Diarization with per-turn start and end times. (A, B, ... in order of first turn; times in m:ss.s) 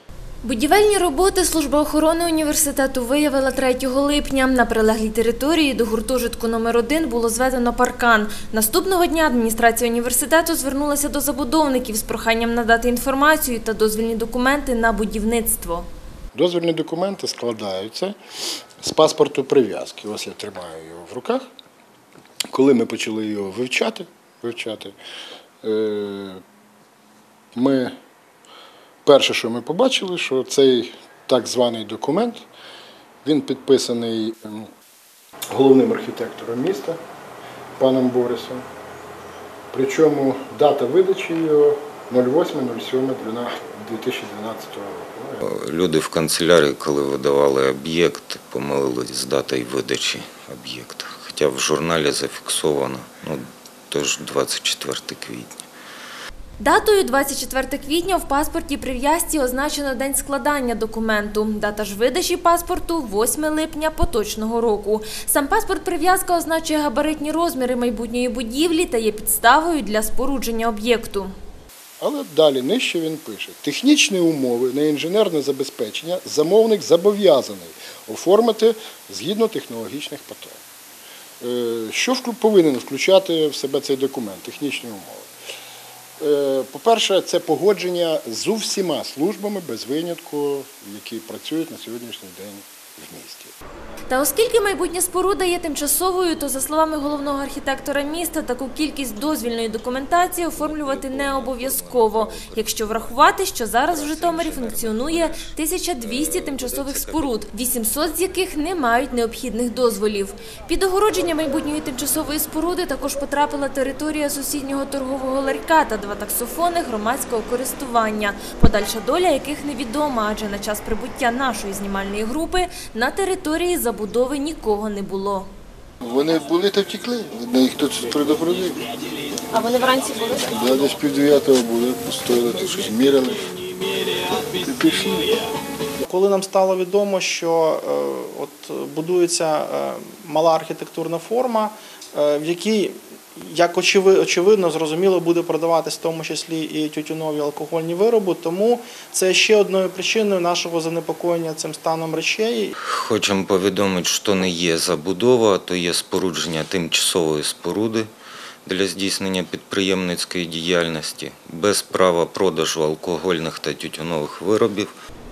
0:00.4-0:15.9 A
0:16.3-0:18.2 B
0:18.8-0:21.4 B
0:22.5-0:25.0 B
0:25.6-0:26.4 B
0:27.5-0:27.9 B
0:29.0-0:32.4 B
0:33.2-0:34.7 B
0:35.5-0:37.0 B
0:37.8-0:38.6 B
0:39.7-0:45.4 B
0:45.4-0:55.6 C
0:56.6-1:11.3 A
1:12.0-1:20.6 B
1:21.4-1:25.3 B
1:26.2-1:33.5 B
1:34.1-2:05.5 A
1:40.5-1:43.3 C
1:43.9-1:47.4 C
2:06.0-2:08.9 D
2:09.5-2:10.5 A
2:10.5-2:13.4 D
2:14.3-2:15.4 D
2:16.0-2:32.7 E
2:32.9-2:38.1 C
2:38.6-2:44.9 C